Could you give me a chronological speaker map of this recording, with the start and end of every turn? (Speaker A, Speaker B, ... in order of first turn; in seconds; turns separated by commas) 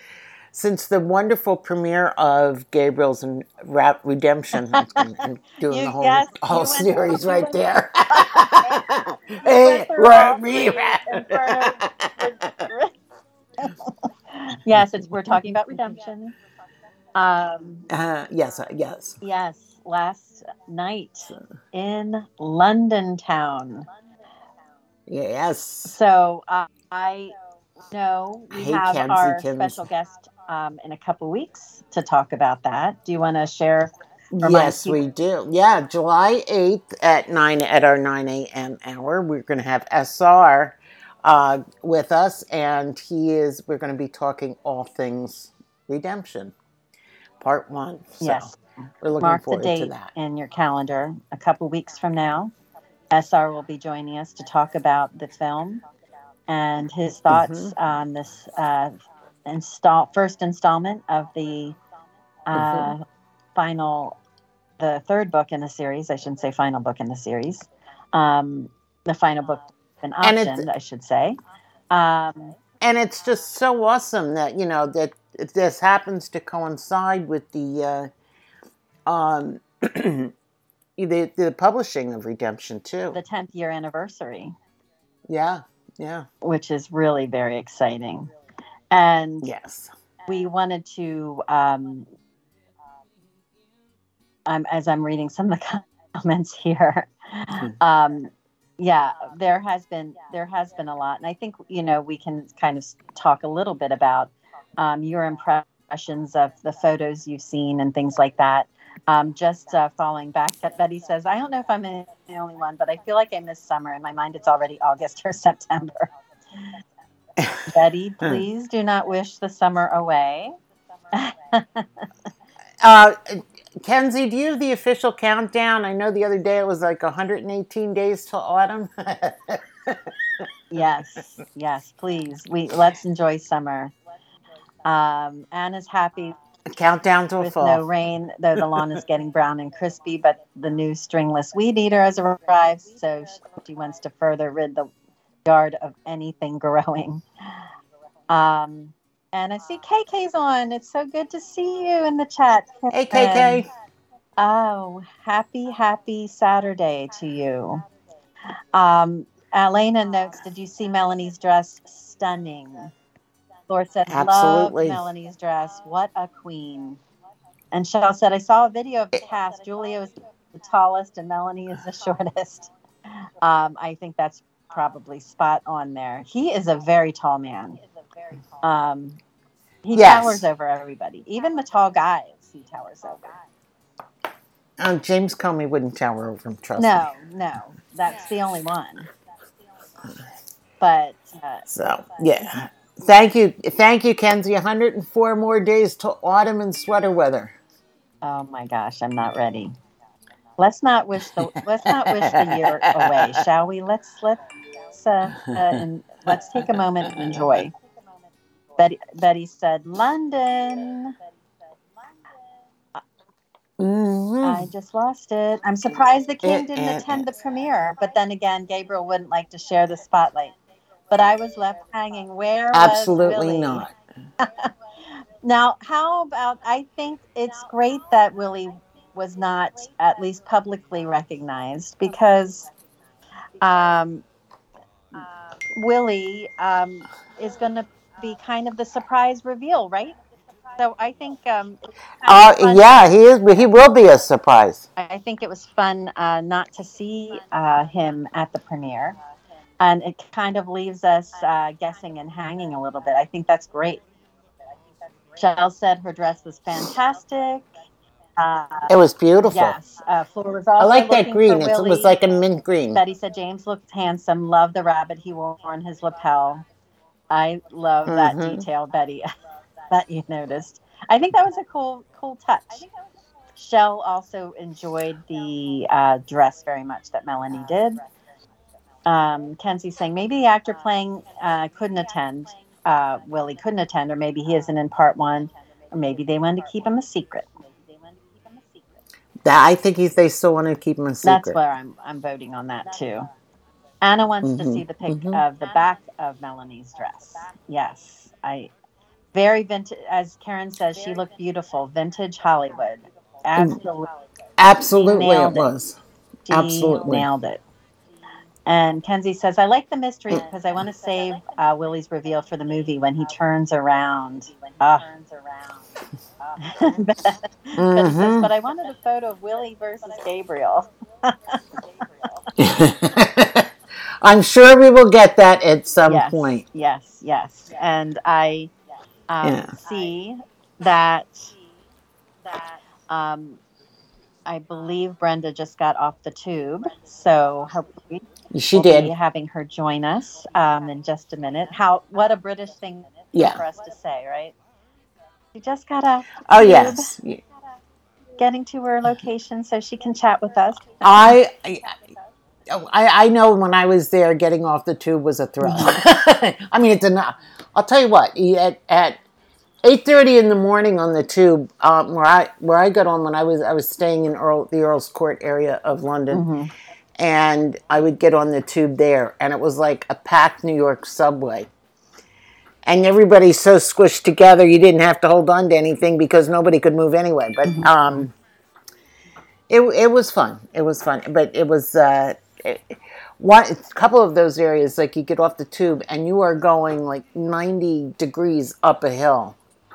Speaker A: 0.5-12.7, Speaker B: 4.7-5.0, Speaker B: 5.7-7.6, Speaker B: 8.1-8.8, Speaker B: 9.4-12.9, Speaker B: 13.6-16.4, Speaker B: 17.1-17.9, Speaker A: 17.9-19.2, Speaker B: 19.2-23.9, Speaker A: 25.1-25.9, Speaker B: 25.9-27.3, Speaker B: 27.9-35.0, Speaker A: 28.5-29.9, Speaker A: 34.3-46.5, Speaker A: 47.4-48.5, Speaker B: 48.2-48.5, Speaker A: 49.0-50.1, Speaker B: 49.2-52.5, Speaker B: 53.1-55.8, Speaker B: 56.5-59.0, Speaker A: 57.3-57.7, Speaker B: 59.5-61.8, Speaker B: 62.5-63.0, Speaker A: 62.5-62.9, Speaker B: 63.5-64.2, Speaker B: 64.8-71.4, Speaker A: 70.2-70.7, Speaker B: 71.9-72.6, Speaker A: 72.8-78.1, Speaker A: 79.1-80.3, Speaker A: 81.0-83.2, Speaker B: 83.1-84.5, Speaker A: 85.3-86.3, Speaker B: 86.4-88.3, Speaker B: 88.9-89.5, Speaker A: 89.4-89.9, Speaker B: 90.3-92.1, Speaker B: 94.5-116.7, Speaker A: 117.4-117.6, Speaker B: 117.7-120.5, Speaker B: 121.1-122.1, Speaker A: 122.8-130.1, Speaker B: 130.7-133.9, Speaker B: 134.8-136.4, Speaker A: 136.7-137.8, Speaker B: 137.4-144.9, Speaker B: 145.4-147.7, Speaker B: 148.3-153.7, Speaker A: 152.9-153.7, Speaker B: 154.4-157.8, Speaker B: 158.7-162.9, Speaker B: 163.7-167.0, Speaker A: 164.1-165.0, Speaker B: 167.7-177.8, Speaker B: 178.6-179.2, Speaker B: 179.8-183.3, Speaker A: 179.9-180.4, Speaker A: 184.8-187.1, Speaker B: 186.8-189.1, Speaker B: 190.8-191.7, Speaker A: 191.7-197.6, Speaker B: 198.2-199.8, Speaker B: 200.6-207.7, Speaker B: 208.8-211.2, Speaker A: 213.8-214.7, Speaker B: 214.4-220.5, Speaker A: 216.4-217.2, Speaker B: 221.1-224.7, Speaker A: 222.7-223.9, Speaker B: 225.4-232.7, Speaker B: 233.6-234.2, Speaker B: 235.7-240.2, Speaker B: 240.8-243.0, Speaker A: 242.2-244.9, Speaker B: 245.0-249.2, Speaker B: 249.8-254.0, Speaker B: 255.4-257.7, Speaker B: 258.4-258.9, Speaker A: 258.9-259.8, Speaker B: 259.5-262.2, Speaker A: 260.8-263.0, Speaker B: 262.9-266.6, Speaker B: 267.3-269.3, Speaker A: 268.1-268.6, Speaker B: 269.9-272.9, Speaker B: 273.6-278.0, Speaker B: 279.1-287.5, Speaker A: 289.4-291.6, Speaker B: 291.2-293.3, Speaker B: 294.0-298.7, Speaker A: 294.4-295.4, Speaker B: 299.3-304.1, Speaker A: 304.6-306.0, Speaker B: 305.0-305.7, Speaker B: 306.5-307.6, Speaker A: 306.5-307.3, Speaker B: 308.7-315.1, Speaker B: 316.6-322.4, Speaker A: 317.8-318.5, Speaker A: 322.6-323.7, Speaker A: 324.2-326.6, Speaker B: 326.1-328.7, Speaker B: 329.3-331.5, Speaker A: 329.4-329.8, Speaker B: 333.1-333.6, Speaker B: 334.5-344.5, Speaker A: 338.5-339.1, Speaker A: 343.3-343.6, Speaker B: 345.6-347.1, Speaker A: 346.5-347.4, Speaker B: 348.4-351.4, Speaker A: 351.0-352.0, Speaker A: 352.7-359.2, Speaker B: 355.6-356.0, Speaker A: 359.8-366.4, Speaker B: 366.3-366.7, Speaker A: 367.2-371.7, Speaker A: 372.9-378.3, Speaker B: 377.7-378.3, Speaker A: 379.7-389.6